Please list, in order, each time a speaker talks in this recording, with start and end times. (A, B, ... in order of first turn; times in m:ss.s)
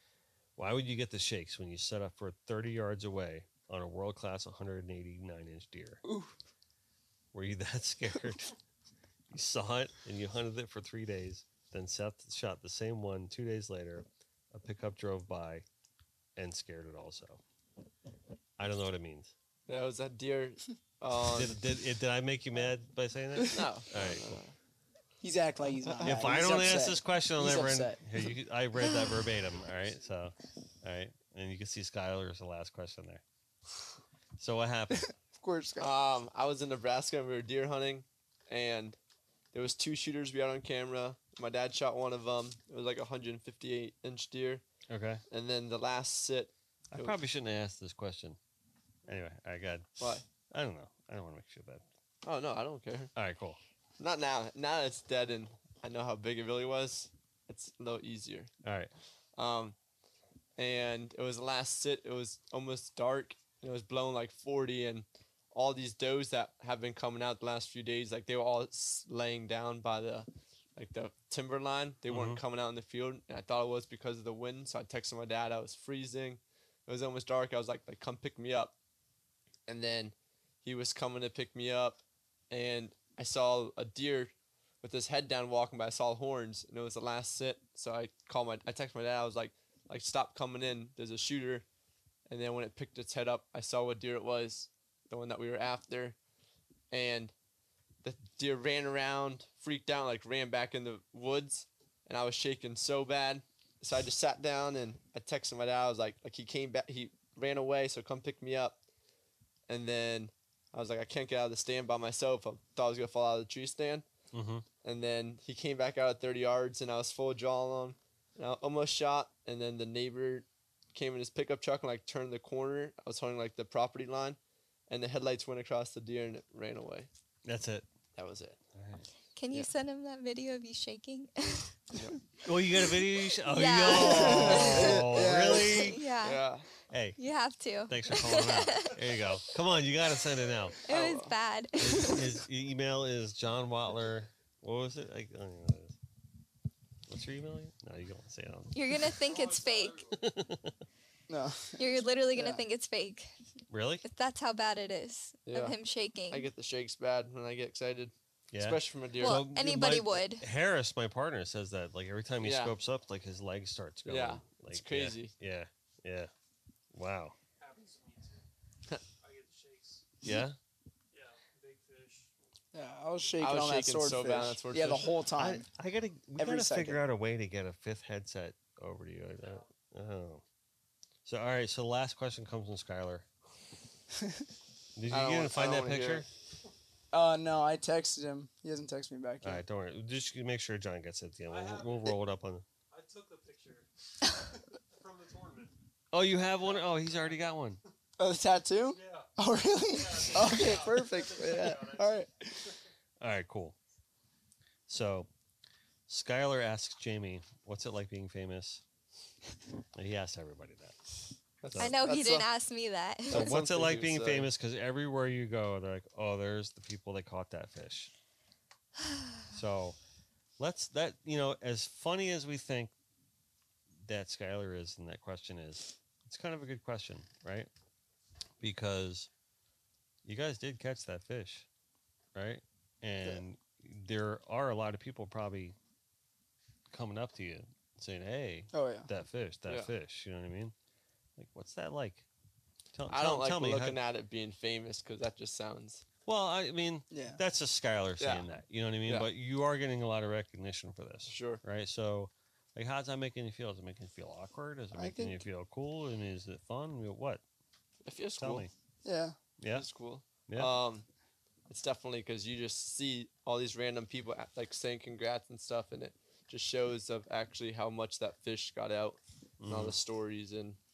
0:00.6-0:06.0 A
0:06.0-0:06.3 B
0:07.3-0:08.5 A
0:09.3-0:15.6 A
0:16.4-0:17.4 A
0:18.6-0:19.3 A
0:19.7-0:21.6 C
0:21.3-0:24.4 A
0:23.5-0:24.5 C
0:25.2-0:28.2 B
0:25.8-0:26.3 C
0:26.0-0:33.2 A
0:29.5-0:30.0 D
0:34.4-0:35.1 A
0:34.9-0:35.9 B
0:35.8-0:39.0 C
0:39.5-0:44.6 C
0:44.9-0:45.2 A
0:45.3-0:47.2 C
0:46.9-0:48.4 A
0:49.0-0:49.9 A
0:50.0-0:50.2 C
0:50.5-0:51.8 A
0:52.2-0:53.1 C
0:53.1-0:53.6 A
0:54.0-0:58.5 C
0:58.6-0:58.9 A
0:59.4-0:59.8 C
1:00.6-1:18.7 C
1:12.1-1:12.4 A
1:19.7-1:31.6 C
1:32.3-1:36.2 C
1:36.9-1:37.3 C
1:38.0-1:48.8 C
1:49.7-1:54.0 C
1:54.3-1:54.6 A
1:54.8-2:07.1 C
2:07.4-2:07.8 A
2:08.2-2:08.6 C
2:08.7-2:09.1 A
2:09.3-2:11.7 E
2:12.4-2:16.0 A
2:13.4-2:15.1 E
2:13.9-2:15.9 B
2:15.6-2:16.4 E
2:16.2-2:16.7 C
2:16.9-2:17.2 A
2:17.2-2:19.0 E
2:17.9-2:20.8 A
2:20.8-2:22.3 E
2:20.9-2:21.3 C
2:21.8-2:26.0 A
2:27.1-2:29.2 A
2:28.7-2:30.0 E
2:29.2-2:30.3 D
2:30.1-2:30.7 A
2:31.3-2:32.6 B
2:31.8-2:33.3 E
2:33.7-2:34.0 A
2:34.0-2:36.5 E
2:35.5-2:35.8 C
2:36.3-2:39.4 C
2:38.5-2:46.3 A
2:39.2-2:40.4 E
2:42.4-2:42.7 C
2:44.0-2:45.3 C
2:46.9-2:47.4 A
2:47.6-2:48.4 D
2:49.2-2:50.2 D
2:50.2-2:50.6 A
2:51.1-2:53.7 D
2:52.7-2:55.6 B
2:53.4-2:55.1 C
2:54.8-2:55.3 D
2:55.3-3:00.4 A
2:56.4-2:57.0 B
2:59.4-2:59.7 D
3:01.2-3:03.2 A
3:05.0-3:06.3 A
3:05.1-3:06.2 C
3:07.1-3:09.6 B
3:09.4-3:12.6 A
3:11.5-3:12.2 D
3:12.9-3:15.7 D
3:16.1-3:17.8 A
3:16.5-3:17.5 D
3:18.2-3:22.8 B
3:18.9-3:22.2 D
3:23.2-3:23.8 A
3:24.9-3:25.3 A
3:26.1-3:28.8 A
3:29.9-3:31.0 A
3:31.6-3:32.5 C
3:31.7-3:32.0 A
3:31.8-3:33.5 E
3:33.3-3:34.5 C
3:33.3-3:38.1 A
3:39.5-3:40.0 A
3:40.6-3:42.9 A
3:44.0-3:47.7 A
3:48.6-3:49.3 A
3:50.2-3:51.7 A
3:52.3-3:55.8 A
3:56.9-4:00.7 A
3:58.7-3:59.1 B
4:01.4-4:02.3 A
4:02.9-4:04.0 A
4:03.1-4:06.0 C
4:06.2-4:17.4 A
4:07.1-4:07.4 B
4:08.2-4:08.4 C
4:11.3-4:11.6 C
4:14.9-4:15.4 B
4:18.0-4:18.7 C
4:18.4-4:18.7 A
4:19.0-4:19.4 B
4:19.6-4:19.9 A
4:19.7-4:21.1 C
4:20.5-4:20.7 A
4:21.7-4:30.8 C
4:29.6-4:30.0 A